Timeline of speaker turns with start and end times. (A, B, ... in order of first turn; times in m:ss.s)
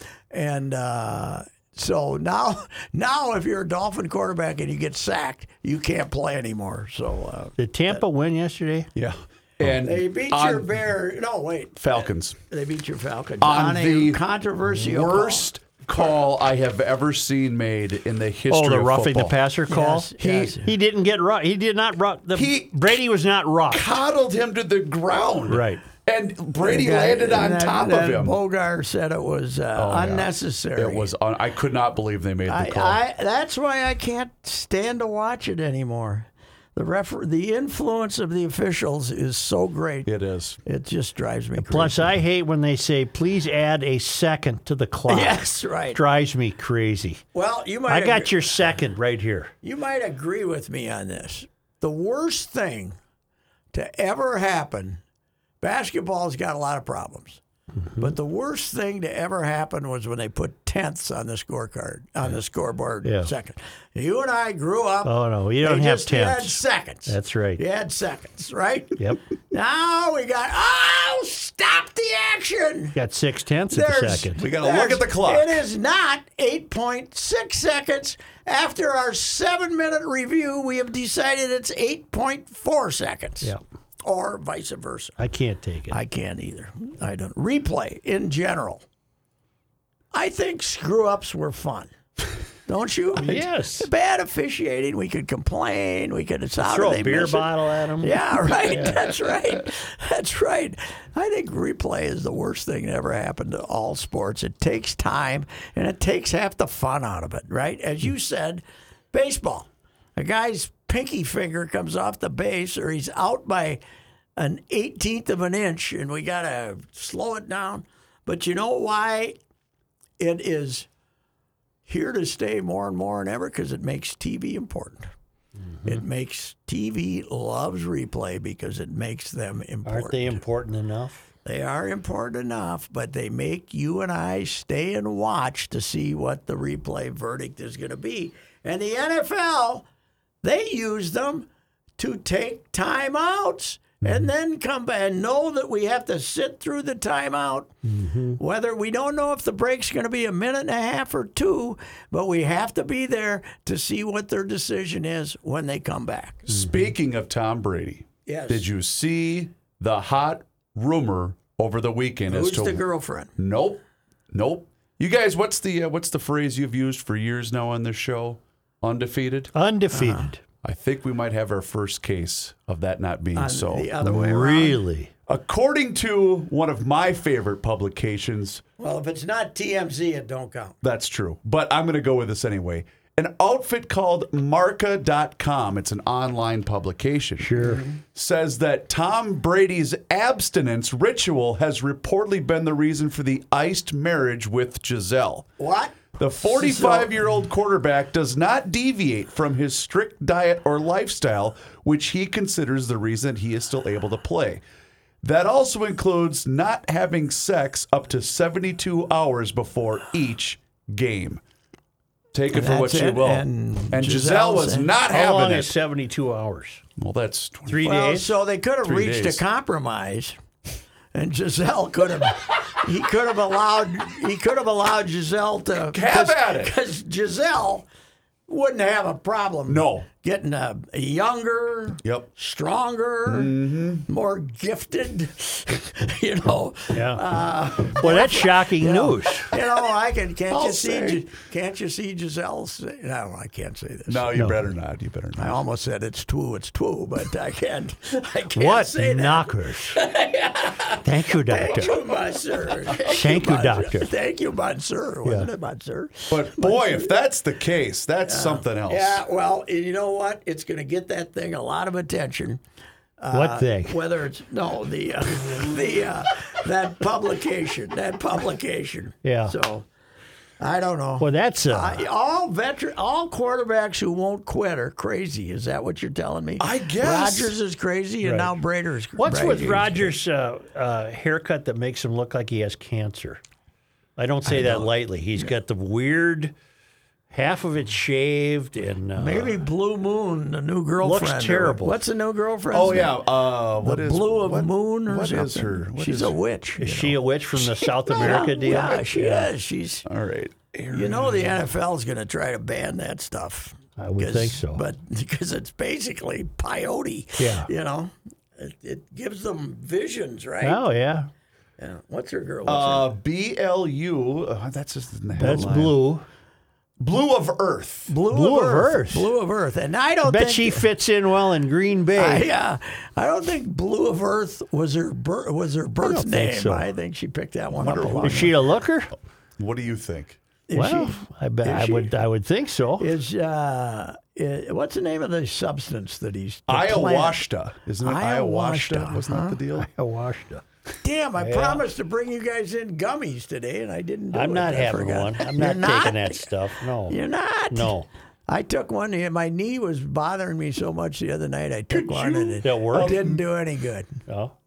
0:00.3-0:08.0 A
0:07.6-0:08.9 B
0:08.9-0:10.7 C
0:09.8-0:15.5 A
0:11.8-0:12.4 C
0:13.4-0:14.2 C
0:14.7-0:19.3 C
0:18.5-0:24.0 B
0:19.7-0:20.7 A
0:22.3-0:23.0 C
0:23.7-0:28.4 C
0:25.5-0:25.8 B
0:26.6-0:31.1 A
0:29.8-0:33.0 C
0:32.5-0:40.1 A
0:40.0-0:40.6 C
0:40.6-0:42.1 A
0:41.6-0:47.2 B
0:45.1-0:46.0 A
0:47.3-0:48.8 A
0:47.9-0:49.5 B
0:49.6-0:53.0 A
0:53.7-0:55.0 A
0:55.6-0:57.4 A
0:57.8-0:58.1 B
0:58.0-1:13.0 A
1:03.0-1:03.3 B
1:05.0-1:07.6 B
1:12.9-1:14.4 B
1:13.7-1:25.1 A
1:14.4-1:15.6 C
1:25.2-1:26.0 B
1:25.9-1:28.8 A
1:30.1-1:31.9 A
1:32.7-1:53.8 A
1:33.2-1:33.9 B
1:36.6-1:39.2 B
1:54.4-1:59.4 A
2:00.2-2:00.9 A
2:01.8-2:05.1 A
2:05.8-2:10.4 A
2:09.8-2:11.2 B
2:11.4-2:19.8 A
2:20.4-2:21.5 A
2:22.0-2:27.7 A
2:27.8-2:28.4 B
2:28.3-2:36.5 A
2:36.5-2:42.8 C
2:38.2-2:38.7 A
2:42.3-2:43.4 A
2:43.4-2:49.5 C
2:49.5-2:50.4 B
2:49.9-2:50.3 A
2:50.6-2:53.9 C
2:53.4-2:54.8 A
2:54.0-2:55.1 B
2:55.3-2:58.6 C
2:58.8-3:00.8 A
3:00.8-3:07.5 C
3:07.4-3:07.8 B
3:07.6-3:08.0 A
3:08.1-3:15.5 C
3:15.6-3:17.2 A
3:16.2-3:24.6 C
3:25.2-3:31.4 C
3:32.3-3:35.7 C
3:32.5-3:34.9 A
3:35.1-3:36.8 B
3:37.0-3:37.9 C
3:37.7-3:38.3 B
3:37.8-3:40.4 A
3:38.8-3:39.4 C
3:41.1-3:47.8 A
3:45.9-3:46.7 C
3:48.5-4:04.4 A
3:49.7-3:50.0 C
3:52.0-3:52.3 C
3:53.3-3:54.0 C
3:56.9-3:57.3 B
3:57.8-3:59.5 B
4:00.5-4:01.2 C
4:04.1-4:05.6 C
4:04.3-4:04.6 B
4:05.4-4:17.1 A
4:08.5-4:10.0 B
4:11.0-4:12.0 B
4:12.9-4:14.1 B
4:16.3-4:19.2 C
4:18.2-4:22.6 A
4:23.2-4:29.9 A
4:23.3-4:24.0 B
4:29.2-4:29.5 B
4:30.6-4:40.1 A
4:31.2-4:32.0 B
4:36.6-4:37.6 C
4:38.2-4:38.6 B
4:39.2-4:43.4 B
4:44.2-4:46.5 B
4:44.4-4:45.5 A
4:47.3-4:49.6 B
4:49.2-4:53.2 A
4:51.0-4:52.0 B
4:52.7-4:56.4 C
4:53.8-5:00.0 A
4:56.8-4:59.5 B
5:00.0-5:01.6 C
5:00.9-5:10.8 A
5:04.0-5:04.8 B
5:07.4-5:07.7 B
5:10.6-5:11.3 B
5:11.8-5:13.1 A
5:12.6-5:16.0 C
5:15.4-5:16.2 B
5:17.0-5:18.1 C
5:18.1-5:20.9 A
5:18.3-5:19.3 B
5:20.2-5:22.5 B
5:22.1-5:28.5 A
5:26.0-5:26.9 B
5:27.8-5:28.5 C
5:28.2-5:29.1 B
5:29.6-5:30.4 C
5:30.7-5:32.1 A
5:30.7-5:33.1 B
5:33.0-5:37.4 A
5:36.7-5:39.9 C
5:38.0-5:39.6 A
5:39.8-5:40.6 B
5:41.0-5:46.5 A
5:41.4-5:41.8 B
5:44.3-5:47.2 B
5:47.1-5:47.9 A
5:47.7-5:48.1 B
5:48.5-5:54.2 A
5:52.2-5:53.4 C
5:52.6-5:53.2 B
5:54.3-5:54.5 B